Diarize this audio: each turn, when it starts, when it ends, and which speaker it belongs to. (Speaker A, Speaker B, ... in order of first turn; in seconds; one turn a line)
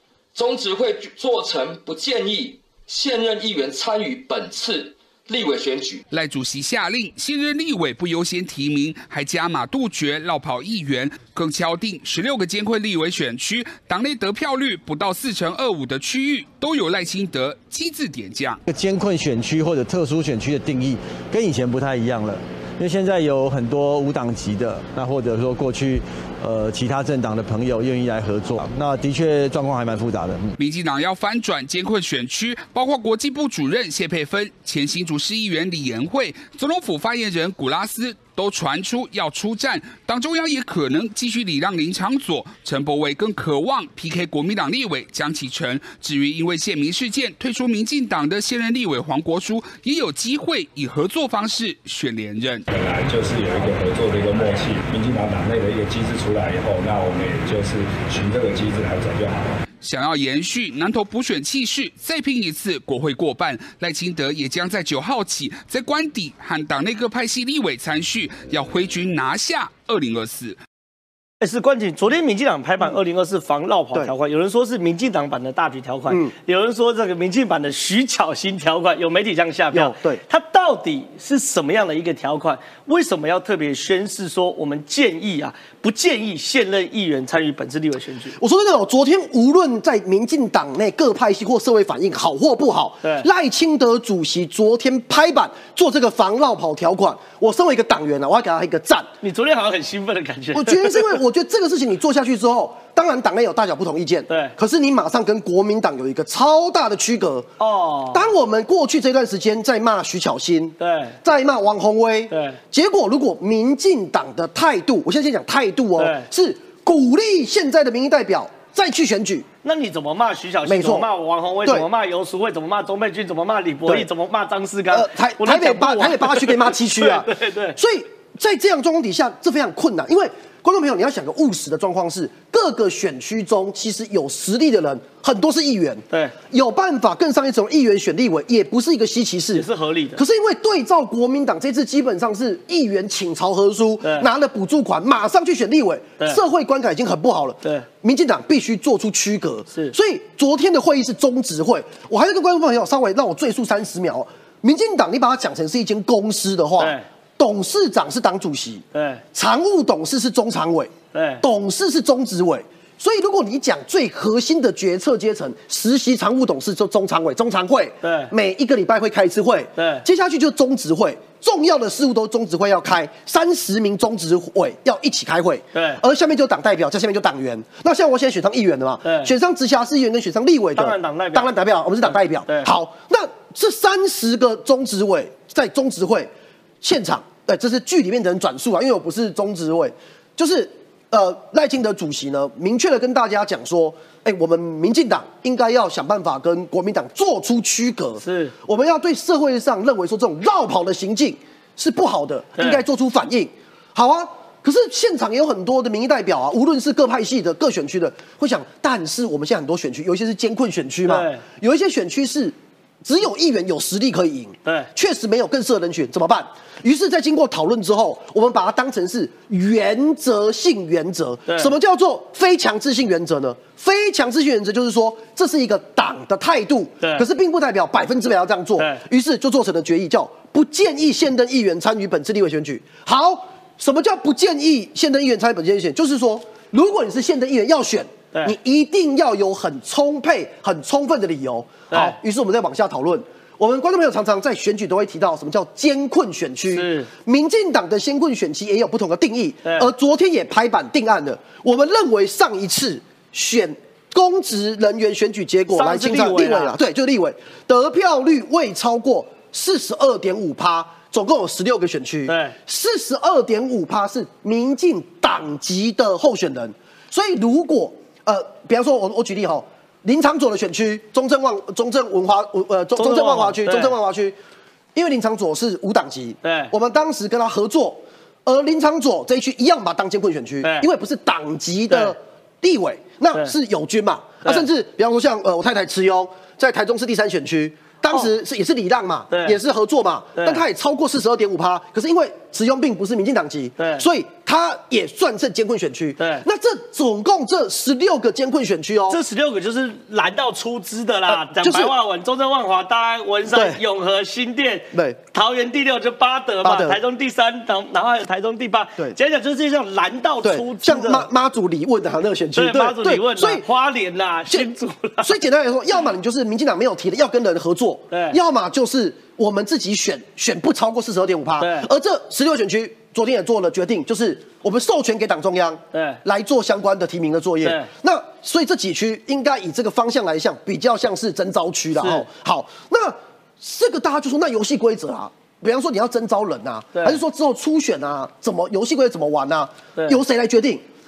Speaker A: 0.3-6.0
Speaker B: 6.1-18.6
Speaker C: 18.6-30.5
Speaker B: 30.6-52.6
Speaker D: 52.7-59.6
Speaker B: 59.8-70.6
Speaker E: 71.4-88.4
Speaker F: 79.7-80.2
Speaker F: 88.4-99.1
Speaker E: 99.2-101.2
Speaker F: 100.5-107.5
Speaker E: 104.3-104.5
Speaker E: 107.6-108.2
Speaker F: 108.1-119.5
Speaker E: 110.8-111.2
Speaker E: 112.3-112.6
Speaker E: 116.0-116.3
Speaker E: 119.6-127.8
Speaker F: 120.7-121.1
Speaker F: 124.9-139.7
Speaker E: 139.5-140.2
Speaker F: 140.2-186.3
Speaker E: 144.0-144.3
Speaker E: 156.8-157.0
Speaker E: 158.9-159.2
Speaker E: 161.1-161.4
Speaker E: 168.0-168.3
Speaker E: 169.8-170.1
Speaker E: 175.7-176.0
Speaker E: 179.0-179.3
Speaker E: 180.7-181.5
Speaker F: 186.8-274.4
Speaker E: 198.2-198.5
Speaker E: 202.6-202.8
Speaker E: 211.1-211.4
Speaker E: 214.6-214.9
Speaker E: 221.5-221.7
Speaker E: 241.9-242.2
Speaker E: 246.7-247.1
Speaker E: 249.6-249.9
Speaker E: 255.7-256.7
Speaker E: 262.3-262.6
Speaker E: 272.9-273.9
Speaker F: 274.9-299.2
Speaker E: 276.4-276.7
Speaker E: 289.3-289.6
Speaker E: 290.4-290.6
Speaker E: 293.8-294.1
Speaker E: 296.2-296.4
Speaker E: 299.1-311.3
Speaker F: 301.3-301.9
Speaker F: 303.5-303.8
Speaker F: 304.9-305.2
Speaker F: 306.6-307.0
Speaker F: 310.4-313.6
Speaker E: 312.5-315.3
Speaker F: 315.2-340.8
Speaker E: 318.1-318.4
Speaker E: 321.6-321.9
Speaker E: 325.9-326.2
Speaker E: 327.6-327.9
Speaker E: 332.0-332.2